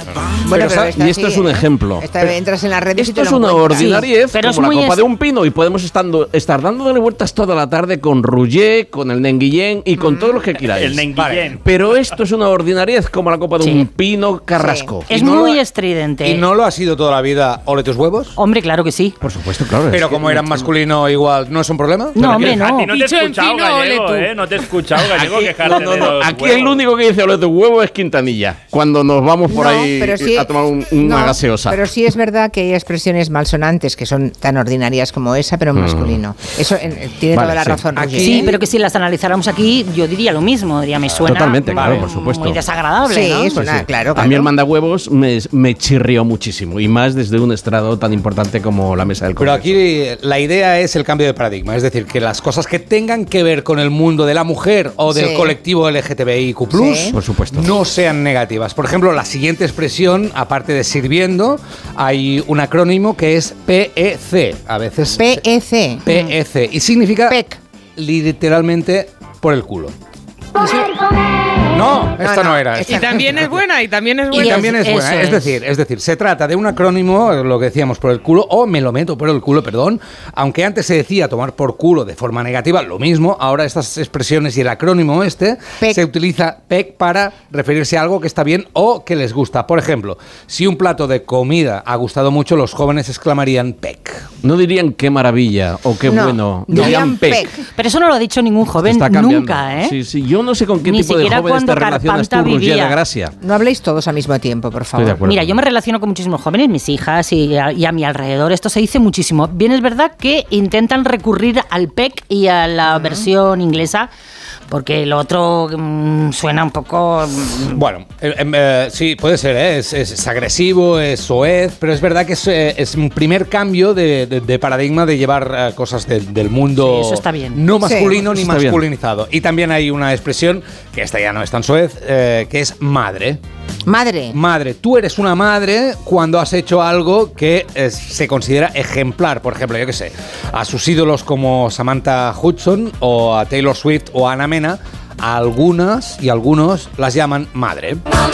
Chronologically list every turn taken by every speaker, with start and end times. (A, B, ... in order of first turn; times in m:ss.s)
0:00.4-0:04.1 A
0:00.5-0:02.4 B
0:02.9-0:15.1 B
0:03.8-0:05.0 C
0:10.0-0:10.4 A
0:10.7-0:11.6 D
0:11.1-0:11.6 E
0:14.6-0:14.9 A
0:15.1-0:16.4 C
0:15.1-0:15.6 E
0:16.2-0:18.3 E
0:18.4-0:19.1 C
0:19.2-0:20.7 B
0:19.9-0:22.3 E
0:22.1-0:22.9 C
0:22.2-0:26.8 D
0:22.8-0:24.4 F
0:25.0-0:31.8 B
0:29.5-0:38.5 A
0:35.7-0:36.2 B
0:37.3-0:38.5 B
0:38.2-0:43.5 C
0:41.2-0:42.6 B
0:41.7-0:42.1 E
0:43.1-0:44.5 A
0:43.5-0:49.8 B
0:49.4-1:05.4 E
0:55.1-0:55.6 A
0:56.7-0:57.2 A
0:57.1-0:57.7 B
1:05.2-1:06.0 A
1:06.0-1:07.4 E
1:07.3-1:07.6 A
1:08.0-1:09.9 E
1:10.6-1:10.9 A
1:11.7-1:13.5 E
1:12.2-1:13.4 A
1:12.9-1:14.5 F
1:14.3-1:15.6 C
1:14.4-1:34.3 E
1:34.4-1:37.5 B
1:36.1-1:37.6 A
1:36.8-1:37.0 E
1:37.8-1:39.9 C
1:38.8-1:43.3 B
1:40.8-1:43.0 C
1:43.4-1:45.2 A
1:44.9-1:45.6 B
1:45.2-1:54.1 C
1:52.9-1:53.3 A
1:54.7-1:57.8 C
1:57.7-2:13.4 E
2:06.8-2:07.6 C
2:07.8-2:08.2 A
2:08.1-2:08.8 B
2:13.9-2:14.4 A
2:14.3-2:28.0 E